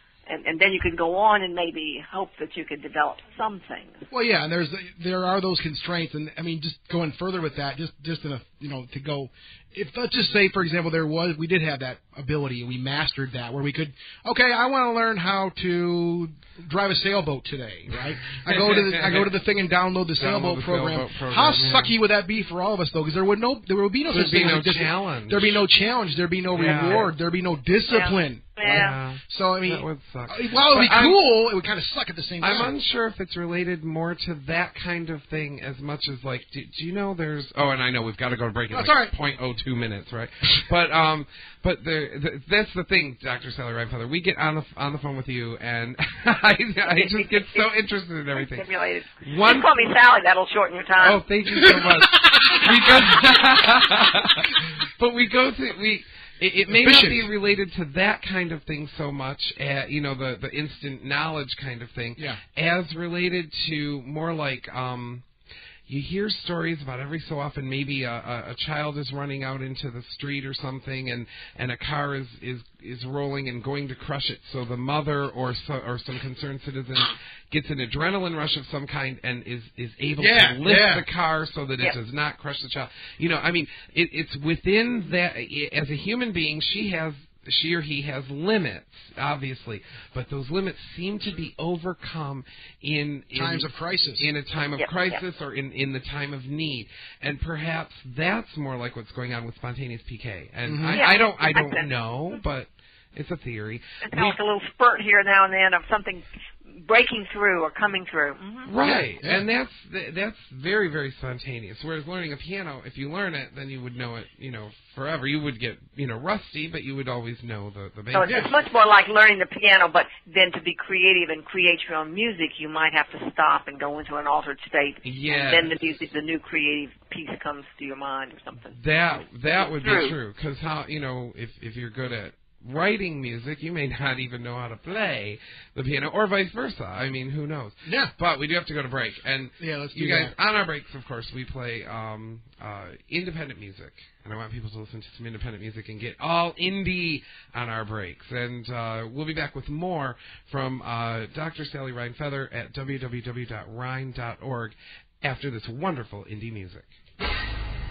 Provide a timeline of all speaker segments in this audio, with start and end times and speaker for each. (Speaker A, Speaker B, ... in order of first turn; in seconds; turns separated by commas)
Speaker A: 0.3-4.0, Speaker B: 4.1-32.7, Speaker C: 18.5-19.3, Speaker C: 20.2-21.9, Speaker C: 24.1-25.6, Speaker C: 26.5-27.1, Speaker A: 27.9-29.0, Speaker C: 28.6-31.2, Speaker C: 32.4-48.7, Speaker B: 38.7-39.1, Speaker A: 46.9-47.6, Speaker A: 48.4-51.2, Speaker C: 49.2-49.7, Speaker C: 51.0-65.3, Speaker B: 51.5-53.2, Speaker B: 56.7-57.3, Speaker C: 65.9-104.4, Speaker B: 80.2-81.0, Speaker B: 93.3-94.3, Speaker A: 94.8-95.2, Speaker B: 100.7-101.0, Speaker A: 100.9-101.9, Speaker A: 104.1-108.7, Speaker C: 108.7-118.6, Speaker B: 108.8-109.5, Speaker A: 118.1-128.8, Speaker C: 125.0-125.8, Speaker C: 128.7-156.9, Speaker A: 129.8-130.2, Speaker B: 137.9-138.1, Speaker B: 139.6-140.3